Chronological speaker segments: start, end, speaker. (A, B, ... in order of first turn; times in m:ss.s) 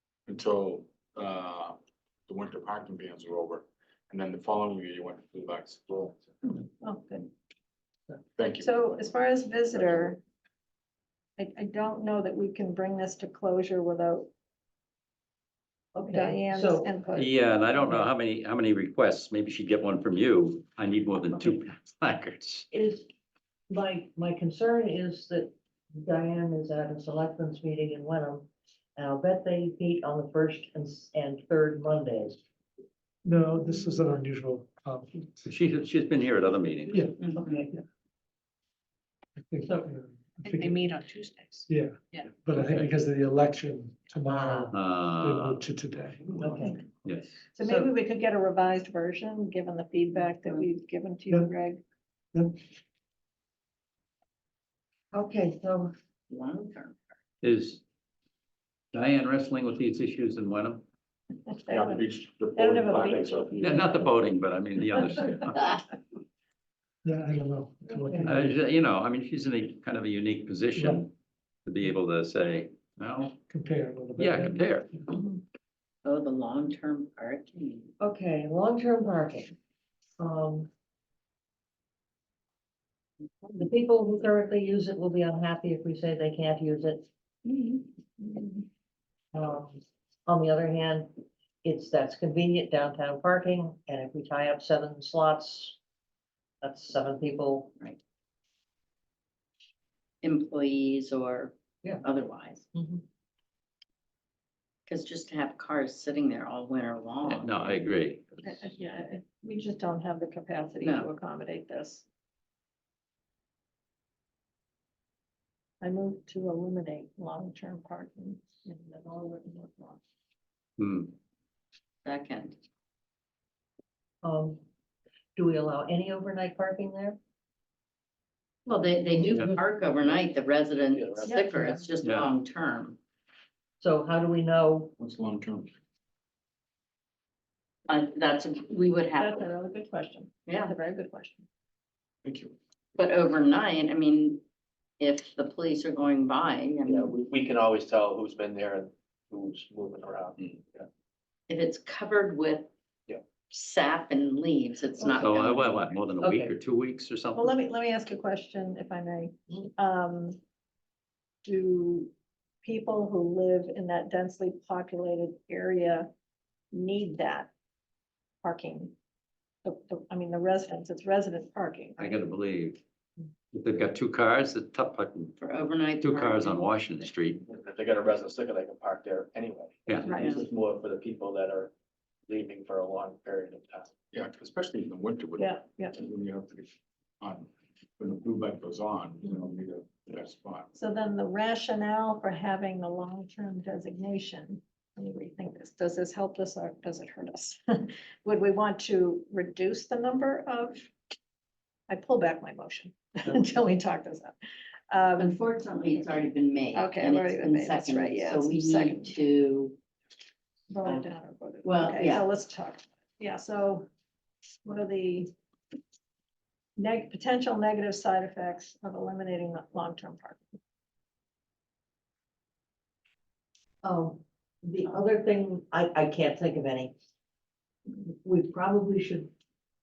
0:00.3-0:06.2 A
0:06.5-0:07.3 B
0:08.4-0:08.7 A
0:08.6-0:10.2 B
0:11.4-0:14.3 B
0:15.9-0:16.9 C
0:16.1-0:17.3 B
0:17.1-0:22.6 D
0:22.7-0:23.1 C
0:23.7-0:32.4 C
0:33.2-0:35.4 E
0:35.4-0:37.0 D
0:36.9-0:37.8 E
0:37.2-0:37.6 F
0:37.3-0:37.7 C
0:39.4-0:40.9 E
0:39.6-0:39.9 C
0:40.4-0:42.3 B
0:41.7-0:46.8 E
0:42.5-0:42.9 D
0:44.2-0:44.7 C
0:44.7-0:45.6 D
0:46.3-0:46.8 C
0:47.0-0:47.4 D
0:47.5-0:51.8 B
0:47.6-0:47.9 C
0:55.1-0:55.9 C
0:56.3-0:57.0 F
0:57.4-0:57.8 D
0:58.9-1:00.8 D
1:01.5-1:03.7 B
1:01.7-1:03.8 A
1:02.8-1:03.5 G
1:03.6-1:05.8 D
1:07.0-1:08.6 E
1:08.0-1:08.3 C
1:08.2-1:11.1 D
1:10.8-1:11.0 E
1:11.6-1:13.4 D
1:13.5-1:15.0 E
1:14.2-1:14.9 D
1:16.0-1:17.9 F
1:18.0-1:19.5 C
1:20.2-1:20.7 C
1:23.5-1:27.0 C
1:27.4-1:27.8 F
1:29.3-1:35.8 C
1:36.6-1:37.7 C
1:40.2-1:42.6 F
1:42.7-1:43.0 C
1:44.9-1:47.6 F
1:47.2-1:48.4 D
1:48.4-1:52.0 B
1:50.8-1:51.1 F
1:55.8-2:00.0 B
2:00.8-2:01.1 D
2:02.0-2:02.6 F
2:04.2-2:04.6 C
2:05.4-2:07.2 C
2:08.6-2:13.0 F
2:10.9-2:11.4 G
2:11.2-2:11.6 B
2:12.0-2:12.3 D
2:13.8-2:14.9 C
2:15.0-2:15.7 A
2:17.9-2:19.5 F
2:19.1-2:21.4 B
2:20.4-2:20.7 F
2:22.2-2:22.5 A
2:23.0-2:24.4 F
2:25.0-2:27.1 F
2:26.9-2:30.9 G
2:31.5-2:32.7 F
2:33.5-2:35.7 F
2:35.0-2:37.5 D
2:36.2-2:36.5 C
2:37.3-2:40.4 B
2:41.4-2:42.1 B
2:42.6-2:46.1 B
2:46.7-2:47.5 B
2:48.4-2:48.9 B
2:49.6-2:52.2 B
2:52.0-2:52.8 D
2:53.5-2:57.4 D
2:55.4-2:56.8 F
2:57.4-3:01.7 G
2:59.9-3:00.1 D
3:00.0-3:00.4 B
3:00.2-3:00.4 F
3:02.3-3:04.0 G
3:04.1-3:10.7 A
3:05.4-3:06.0 B
3:10.7-3:20.9 B
3:21.9-3:24.4 B
3:24.9-3:25.4 B
3:25.2-3:29.8 F
3:26.7-3:29.2 B
3:30.7-3:33.9 B
3:31.6-3:32.3 F
3:34.6-3:35.3 B
3:36.8-3:40.6 B
3:43.8-3:46.9 C
3:48.2-3:49.3 C